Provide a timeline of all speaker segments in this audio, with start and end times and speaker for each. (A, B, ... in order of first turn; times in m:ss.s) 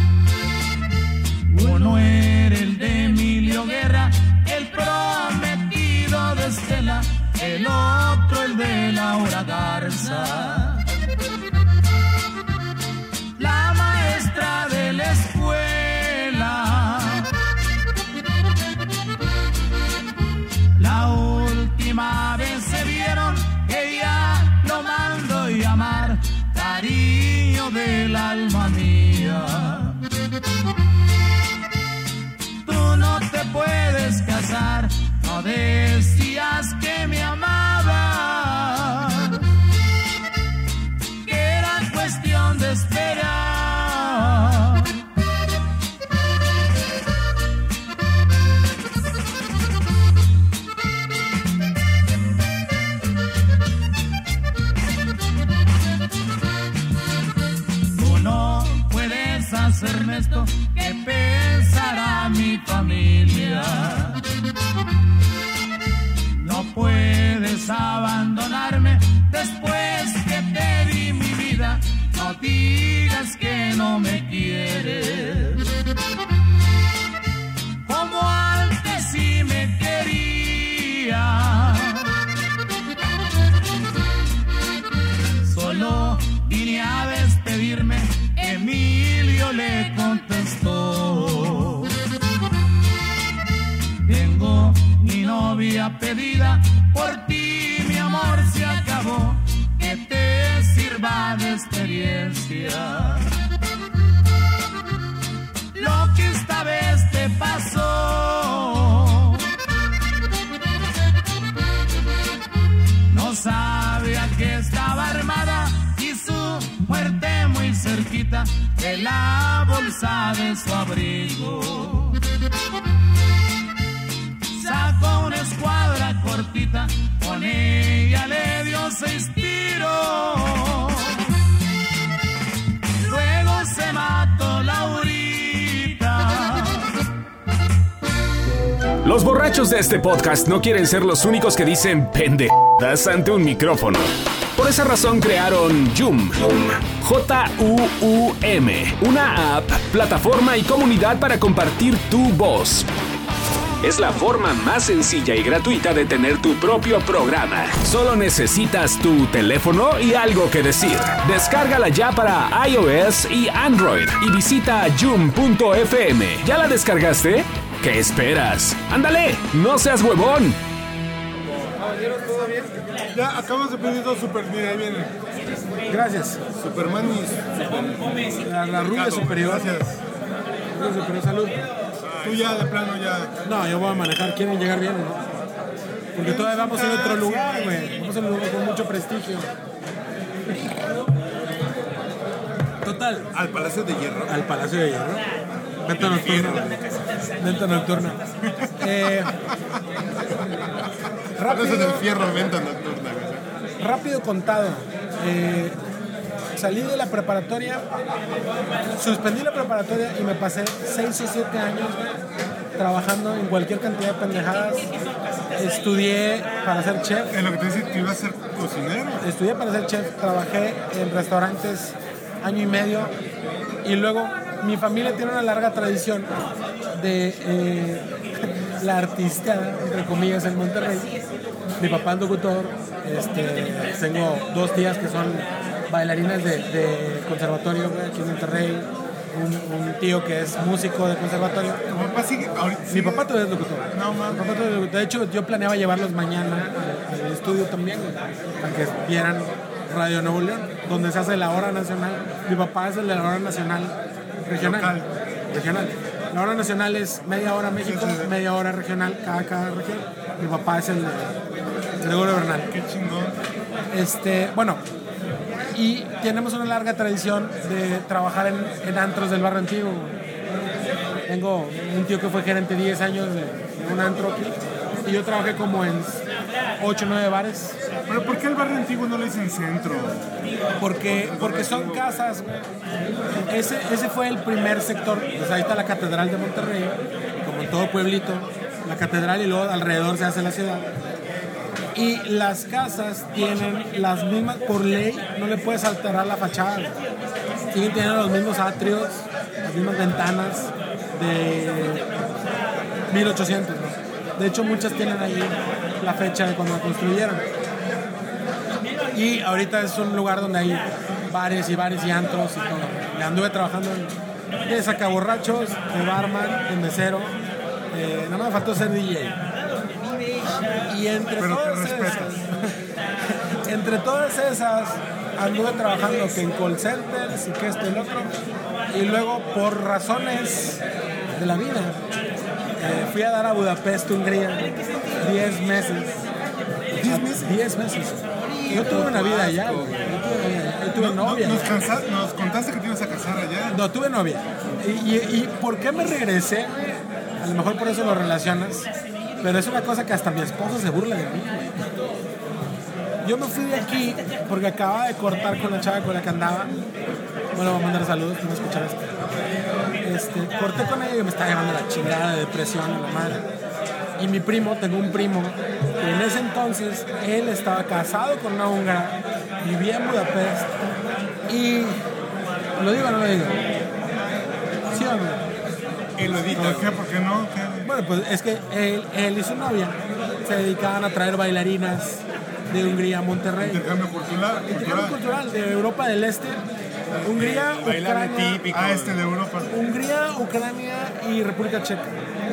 0:01.5-0:10.8 A
0:13.4-0:17.3 A
0:20.8-0:30.0 A
0:32.6-0:39.4 A
0:41.2-0:45.0 A
0:57.9-1:04.2 A
1:06.4-1:15.6 A
1:17.9-1:22.1 A
1:25.4-1:31.9 A
1:34.1-1:43.3 A
1:45.8-1:49.4 A
1:53.1-2:02.2 A
2:04.6-2:11.2 A
2:13.0-2:16.9 A
2:19.0-2:32.9 B
2:33.8-2:50.6 B
2:52.2-2:52.5 C
2:53.1-2:55.1 D
2:55.9-2:56.4 E
2:56.6-3:00.0 C
2:58.4-2:59.7 E
3:00.7-3:01.6 E
3:02.0-3:02.6 C
3:02.2-3:03.3 D
3:03.4-3:05.3 E
3:06.1-3:09.5 E
3:06.2-3:07.9 D
3:12.8-3:13.3 E
3:13.3-3:14.3 C
3:14.3-3:15.2 E
3:15.8-3:16.6 E
3:16.0-3:16.8 C
3:17.4-3:18.2 E
3:18.8-3:19.4 E
3:21.4-3:22.1 E
3:21.4-3:23.4 C
3:23.8-3:25.8 E
3:26.6-3:27.8 E
3:29.0-3:32.2 E
3:32.8-3:34.9 E
3:35.6-3:37.4 E
3:37.3-3:39.2 D
3:39.2-3:43.1 E
3:43.8-3:46.3 E
3:46.9-3:51.1 E
3:51.8-4:01.9 E
4:01.9-4:03.3 D
4:02.9-4:21.4 E
4:03.9-4:04.6 D
4:14.5-4:15.1 D
4:17.8-4:18.4 D
4:22.0-4:22.7 E
4:22.7-4:23.4 D
4:23.9-4:24.8 E
4:25.7-4:30.2 E
4:31.3-4:36.2 E
4:36.8-4:37.8 E
4:38.1-4:40.6 D
4:40.8-4:42.7 E
4:41.0-4:42.2 C
4:43.5-4:50.9 E
4:51.9-4:57.0 E
4:57.7-5:02.2 E
5:03.1-5:07.5 E
5:09.1-5:14.1 E
5:14.7-5:17.4 E
5:17.9-5:19.4 E
5:20.9-5:22.7 E
5:21.4-5:22.4 D
5:23.6-5:28.3 E
5:28.9-5:30.8 E
5:31.3-5:32.0 E
5:32.8-5:36.2 E
5:36.9-5:37.5 C
5:37.0-5:41.7 E
5:38.6-5:40.1 C
5:40.9-5:43.8 D
5:43.7-5:48.9 E
5:49.4-5:51.7 E
5:53.2-5:56.7 E
5:57.5-5:59.1 E
6:00.0-6:03.4 E
6:04.2-6:10.7 E
6:11.5-6:12.0 E
6:12.8-6:13.6 E
6:14.9-6:15.4 E
6:16.2-6:17.0 C
6:16.2-6:17.9 D
6:16.6-6:16.8 E
6:17.8-6:23.9 E
6:23.6-6:25.2 D
6:24.7-6:26.6 E
6:27.1-6:29.2 C
6:27.2-6:28.7 E
6:28.7-6:29.7 D
6:29.7-6:32.1 E